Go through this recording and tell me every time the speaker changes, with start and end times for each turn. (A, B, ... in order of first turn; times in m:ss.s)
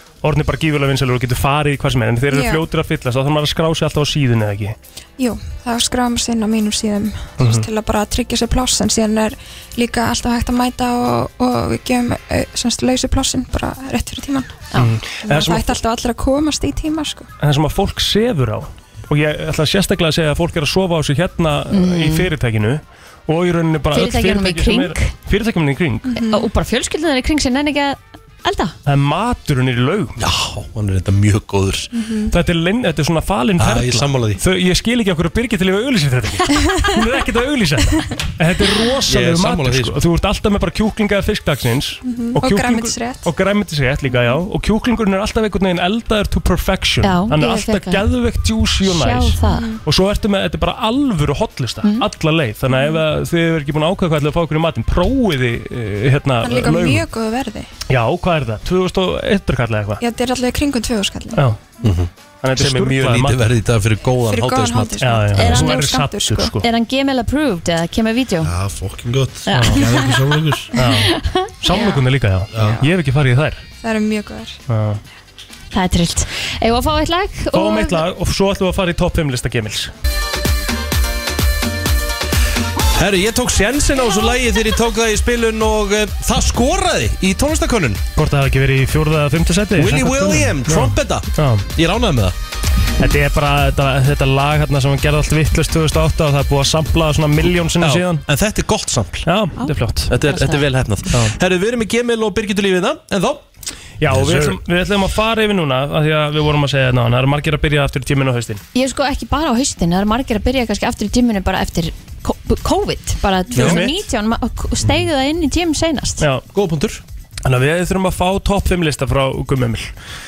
0:00.2-0:04.8 A
0:02.3-0:02.6 B
0:05.2-0:14.6 B
0:07.4-0:07.6 A
0:14.8-0:15.7 A
0:15.2-0:17.3 B
0:17.4-0:26.1 A
0:21.7-0:22.3 C
0:23.9-0:25.1 C
0:26.1-0:26.5 B
0:26.2-0:28.7 C
0:28.8-0:30.2 A
0:30.2-0:31.9 D
0:31.9-0:32.3 B
0:32.3-0:57.0 A
0:33.6-0:34.4 D
0:39.1-0:40.0 D
0:42.0-0:43.3 B
0:44.1-0:44.4 B
0:47.0-0:48.0 C
0:48.8-0:49.7 C
0:49.4-0:49.8 B
0:52.7-0:53.0 B
0:56.4-0:57.7 B
0:57.9-1:00.0 A
1:00.0-1:01.9 B
1:01.3-1:01.6 A
1:01.8-1:05.6 D
1:02.4-1:03.4 A
1:04.2-1:06.6 B
1:05.0-1:06.6 A
1:05.4-1:05.9 C
1:06.6-1:08.5 C
1:08.4-1:10.7 E
1:09.4-1:10.1 C
1:09.5-1:09.8 A
1:10.8-1:12.0 C
1:10.8-1:13.6 A
1:12.5-1:12.8 E
1:12.6-1:12.9 B
1:13.8-1:14.6 B
1:14.7-1:15.0 A
1:15.7-1:18.0 C
1:17.5-1:19.9 A
1:22.9-1:28.0 D
1:28.2-1:31.7 A
1:29.8-1:32.4 D
1:33.0-1:38.2 A
1:37.8-1:39.3 D
1:39.2-1:40.1 A
1:39.6-1:40.6 C
1:40.1-1:43.4 D
1:44.0-1:48.6 A
1:44.1-1:44.6 D
1:48.7-1:56.2 C
1:53.5-1:53.9 D
1:53.6-1:53.9 A
1:56.2-1:56.4 A
1:56.5-1:57.0 D
1:57.4-1:59.9 A